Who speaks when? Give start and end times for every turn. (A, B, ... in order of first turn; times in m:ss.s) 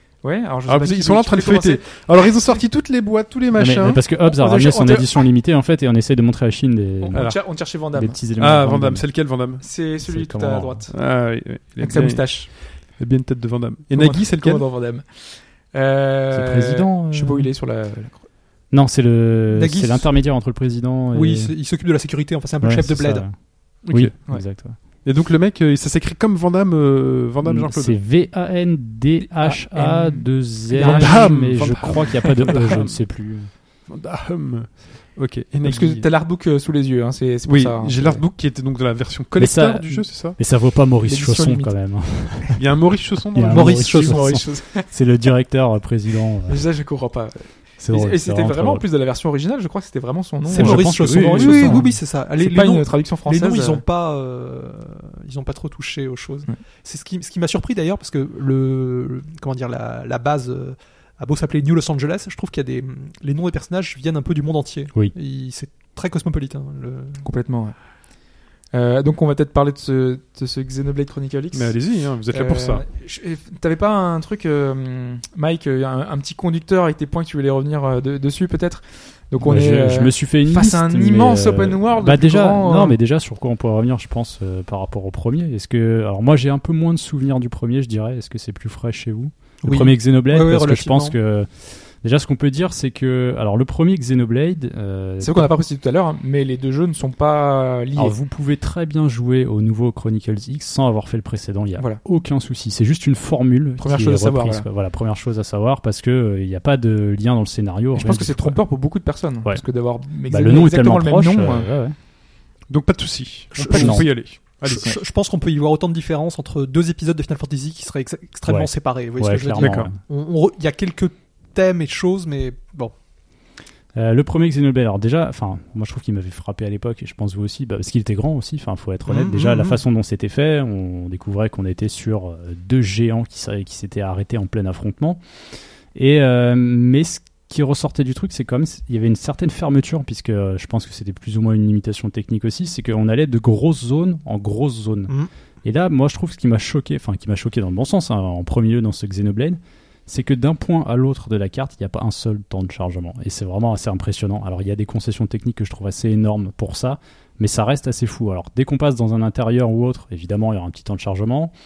0:00.2-0:02.0 A
0:00.7-0:04.0 B
0:03.5-0:07.3 C
0:04.2-0:05.2 A
0:07.0-0:08.2 A
0:07.9-0:09.0 C
0:08.4-0:09.6 B
0:09.6-0:11.0 A
0:10.0-0:10.8 C
0:10.9-0:14.6 B
0:11.8-0:12.5 A
0:13.9-0:15.0 A
0:15.7-0:18.2 A
0:16.3-0:17.5 C
0:18.7-0:21.5 C
0:19.5-0:20.1 D
0:21.1-0:23.3 D
0:22.6-0:24.8 C
0:23.8-0:24.1 B
0:25.0-0:28.0 B
0:27.4-0:33.5 C
0:29.2-0:31.4 A
0:30.8-0:33.1 B
0:33.9-0:36.0 B
0:35.6-0:38.2 A
0:37.4-0:40.4 B
0:39.4-0:42.6 C
0:41.0-0:41.7 A
0:42.6-0:43.9 B
0:43.3-0:46.6 C
0:43.5-0:44.5 D
0:44.0-0:44.8 A
0:46.5-0:53.8 A
0:47.8-0:48.8 C
0:50.5-1:07.2 D
0:50.5-0:51.9 C
1:07.2-1:07.7 A
1:08.7-1:23.0 A
1:11.5-1:12.8 B
1:19.4-1:35.5 C
1:29.6-1:31.2 D
1:35.2-1:38.1 A
1:38.0-1:48.6 C
1:43.8-1:44.6 A
1:47.9-1:51.7 A
1:50.3-1:52.0 C
1:52.7-1:55.0 B
1:53.5-2:02.9 D
1:53.7-1:54.1 C
1:58.5-2:00.0 C
1:59.6-1:59.9 B
2:03.9-2:15.2 C
2:09.1-2:09.8 D
2:15.9-2:41.5 C